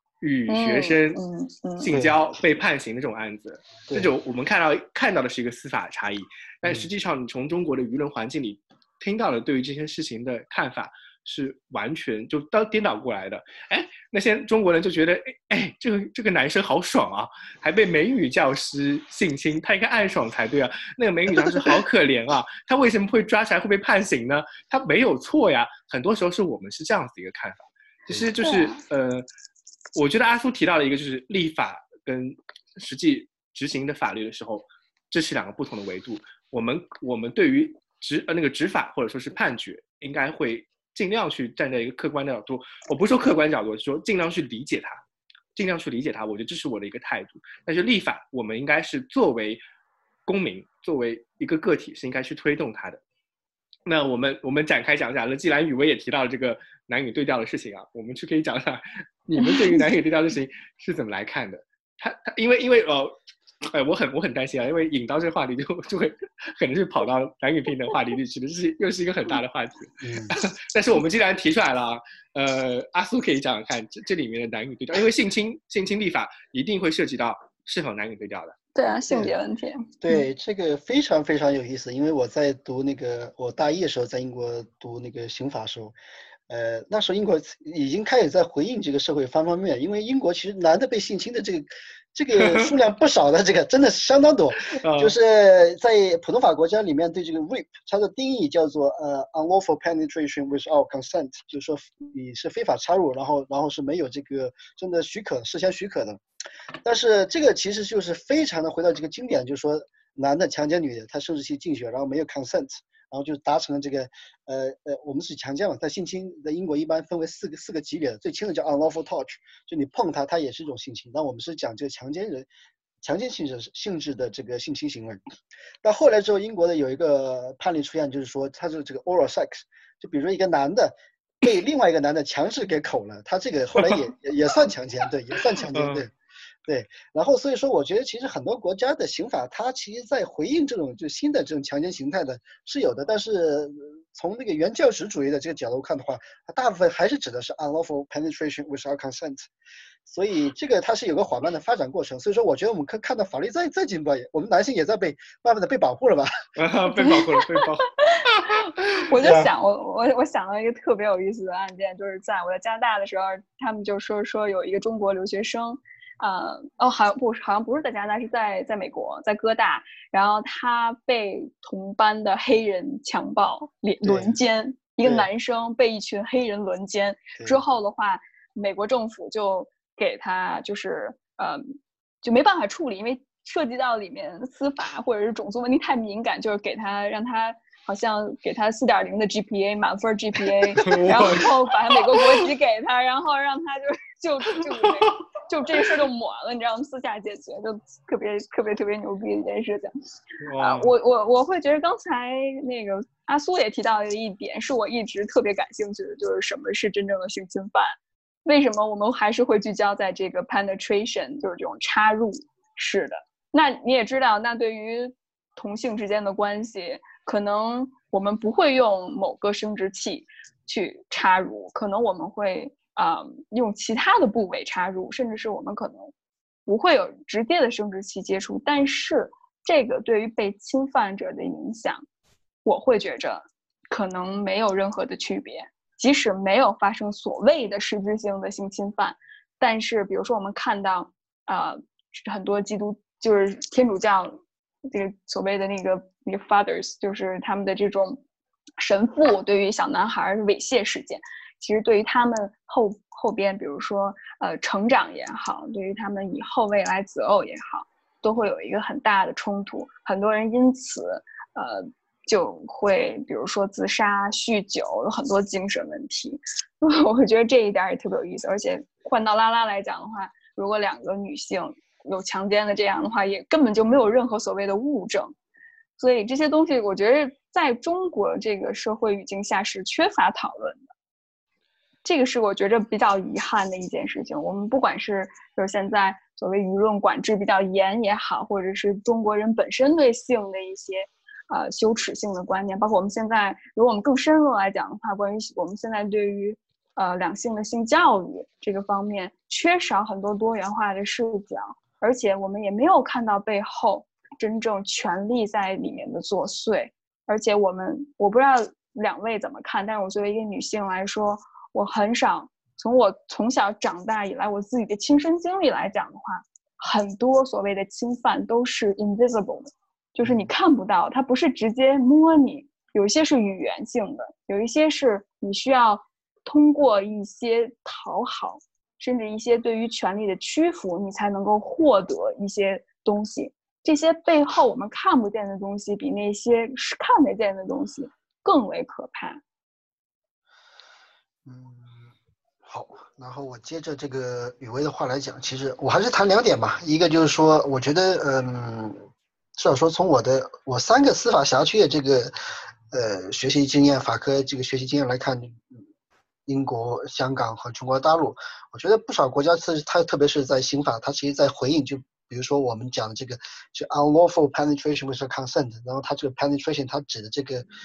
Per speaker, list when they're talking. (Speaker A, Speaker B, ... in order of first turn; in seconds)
Speaker A: 0.2-1.2, 1.8-29.3, 29.9-45.0, 45.6-49.6, 50.3-53.0, 53.9-78.6, 92.3-92.7, 94.6-95.2, 135.7-136.0, 156.6-159.1, 190.8-191.5, 200.4-200.9
Speaker B: 0.5-1.9, 28.4-28.8, 59.5-59.8, 78.8-80.2, 157.0-158.2, 159.0-199.9, 200.6-207.9, 208.4-226.1, 226.7-232.1, 232.7-244.4, 244.9-248.2, 248.8-275.4, 276.0-280.9, 282.0-339.4
Speaker C: 1.9-2.2, 21.3-21.8, 70.0-70.3, 80.0-86.0, 86.5-106.2, 106.8-122.5, 123.0-125.2, 125.8-136.1, 136.7-149.5, 150.1-156.3, 174.0-174.4, 175.0-175.3, 341.4-342.1, 342.6-349.0, 349.6-352.3, 352.9-355.7, 356.5-367.7